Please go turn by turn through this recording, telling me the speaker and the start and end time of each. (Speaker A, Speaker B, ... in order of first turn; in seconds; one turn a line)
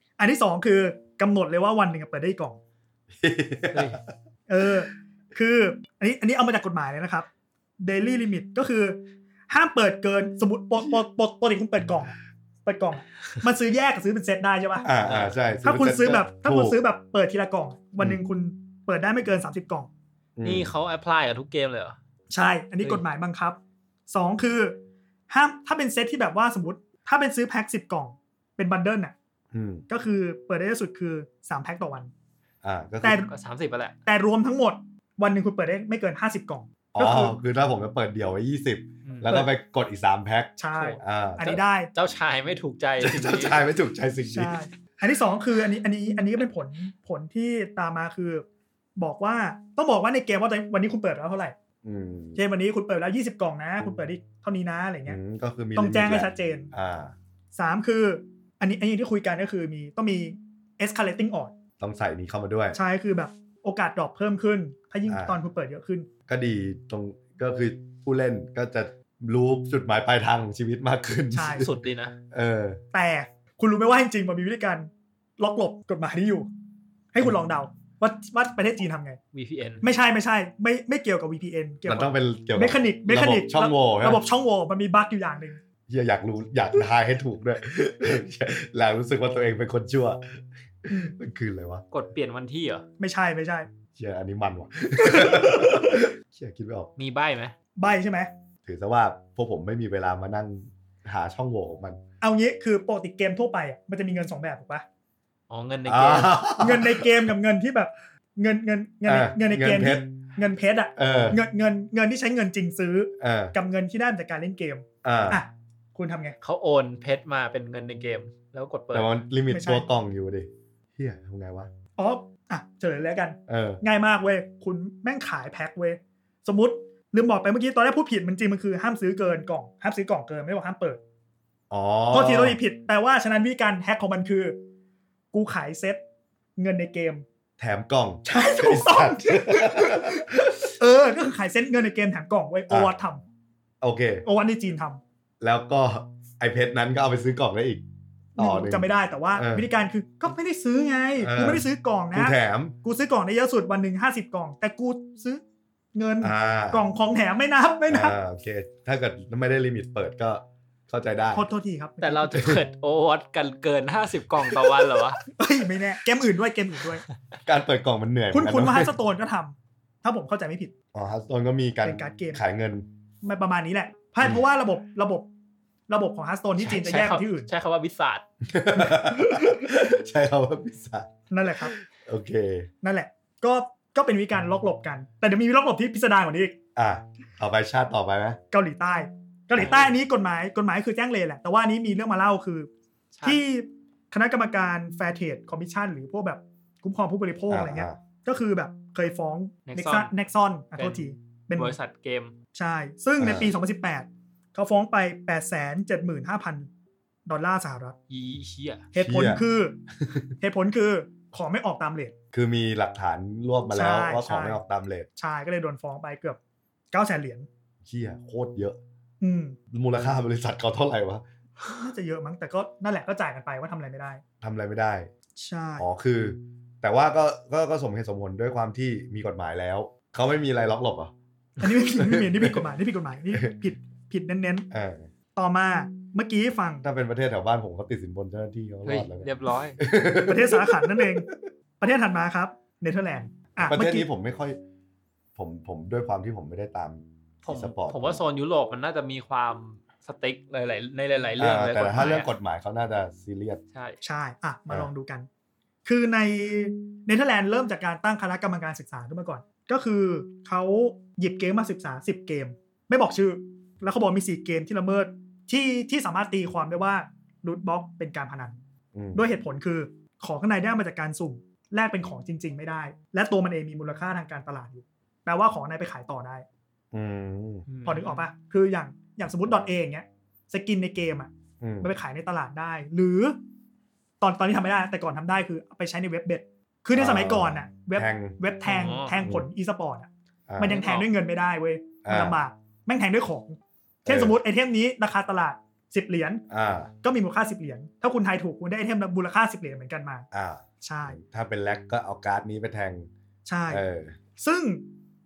Speaker A: 0.2-2.6
Speaker B: 3.1-4.0
Speaker C: 3.7-4.0
Speaker A: 4.5-7.3
Speaker A: 7.8-14.9
Speaker B: 14.8-16.8
Speaker C: 15.0-15.3
Speaker A: 15.6-19.9
Speaker B: 20.4-20.7
Speaker C: 20.4-22.0
Speaker A: 22.3-24.8
Speaker A: 25.3-29.1
Speaker B: 29.5-29.8
Speaker A: 29.9-32.1
Speaker B: 32.6-33.2
Speaker A: 33.0-33.3
Speaker C: 33.3-34.0
Speaker A: 34.0-37.4
Speaker B: 36.9-41.6
Speaker C: 39.0-39.3
Speaker A: 39.2-39.5
Speaker A: 40.6-41.9
Speaker C: 40.7-43.6
Speaker B: 43.0-44.5
Speaker A: 44.3-48.4
Speaker A: 49.0-51.5
Speaker B: 51.8-52.4
Speaker A: 52.4-55.2
Speaker B: 55.0-57.1
Speaker A: 55.8-56.7
Speaker A: 57.5-61.5
Speaker B: 61.8-62.8
Speaker A: 62.7-66.1
Speaker B: 65.1-65.4
Speaker B: 66.3-71.7
Speaker A: 71.3-71.7
Speaker C: 71.5-72.2
Speaker B: 72.3-72.8
Speaker A: 72.9-76.5
Speaker A: 77.1-79.2
Speaker C: 79.3-79.8
Speaker A: 79.8-85.6
Speaker B: 81.8-84.2
Speaker B: 85.9-91.8
Speaker A: 90.9-91.1
Speaker C: 91.9-92.8
Speaker A: 93.0-93.7
Speaker B: 94.0-96.9
Speaker A: 95.0-96.0
Speaker C: 97.0-97.5
Speaker A: 97.8-98.3
Speaker B: 98.6-102.0
Speaker A: 102.2-104.8
Speaker C: 105.5-106.4
Speaker B: 105.8-107.3
Speaker A: 106.6-116.4
Speaker B: 109.0-110.0
Speaker B: 111.0-111.4
Speaker B: 113.2-113.5
Speaker B: 115.0-115.4
Speaker C: 116.4-119.1
Speaker B: 118.9-121.7
Speaker A: 119.5-119.8
Speaker A: 122.0-131.0
Speaker B: 123.5-123.8
Speaker B: 131.7-132.6
Speaker A: 132.1-134.6
Speaker A: 135.3-136.0
Speaker A: 136.6-137.2
Speaker B: 137.6-140.6
Speaker A: 138.2-143.2
Speaker B: 143.8-144.2
Speaker A: 144.2-145.0
Speaker B: 145.4-147.8
Speaker B: 148.4-149.7
Speaker A: 148.4-155.4
Speaker B: 151.2-152.8
Speaker A: 155.9-158.2
Speaker B: 156.2-156.8
Speaker B: 157.9-161.4
Speaker A: 161.3-162.5
Speaker C: 162.0-165.2
Speaker B: 162.3-162.6
Speaker A: 165.3-167.0
Speaker B: 167.4-168.9
Speaker A: 168.3-170.7
Speaker B: 170.9-172.8
Speaker A: 171.8-172.4
Speaker A: 173.2-175.2
Speaker A: 175.9-177.5
Speaker C: 176.6-178.2
Speaker B: 178.4-181.1
Speaker A: 178.8-179.5
Speaker A: 181.3-181.7
Speaker B: 181.6-182.7
Speaker A: 182.8-186.6
Speaker B: 186.8-188.4
Speaker A: 188.5-192.7
Speaker B: 189.6-189.9
Speaker C: 193.2-193.4
Speaker A: 193.2-201.8
Speaker B: 197.5-198.0
Speaker C: 199.7-200.1
Speaker C: 200.7-202.3
Speaker A: 202.5-206.7
Speaker B: 203.2-203.5
Speaker A: 207.2-207.9
Speaker C: 208.1-208.8
Speaker A: 208.9-209.8
Speaker B: 209.0-209.4
Speaker B: 210.0-210.3
Speaker A: 210.4-212.1
Speaker B: 212.3-215.1
Speaker A: 213.7-214.6
Speaker A: 215.2-216.4
Speaker A: 216.9-217.5
Speaker B: 217.8-218.8
Speaker A: 219.2-219.6
Speaker B: 219.7-221.2
Speaker A: 221.6-224.2
Speaker B: 224.4-225.1
Speaker A: 225.4-225.9
Speaker B: 225.8-232.6
Speaker A: 231.6-234.7
Speaker B: 234.7-235.1
Speaker A: 235.3-236.8
Speaker B: 236.8-241.4
Speaker C: 238.8-239.8
Speaker A: 240.2-241.3
Speaker A: 241.8-244.1
Speaker B: 243.6-244.6
Speaker B: 245.3-248.2
Speaker C: 247.4-252.3
Speaker B: 251.4-253.6
Speaker C: 253.7-254.0
Speaker A: 254.0-255.3
Speaker A: 255.8-268.6
Speaker B: 268.9-269.2
Speaker A: 269.1-276.4
Speaker B: 276.9-277.6
Speaker C: 277.7-278.2
Speaker A: 277.8-281.3
Speaker B: 281.6-281.9
Speaker A: 281.8-283.4
Speaker A: 284.2-296.4
Speaker B: 286.9-288.4
Speaker C: 288.6-289.2
Speaker B: 290.5-290.8
Speaker C: 290.6-291.1
Speaker B: 292.0-292.4
Speaker B: 294.1-294.4
Speaker B: 296.5-296.9
Speaker A: 297.0-300.2
Speaker B: 300.3-303.1
Speaker A: 300.8-301.2
Speaker A: 303.4-303.8
Speaker B: 303.7-304.2
Speaker A: 304.4-304.8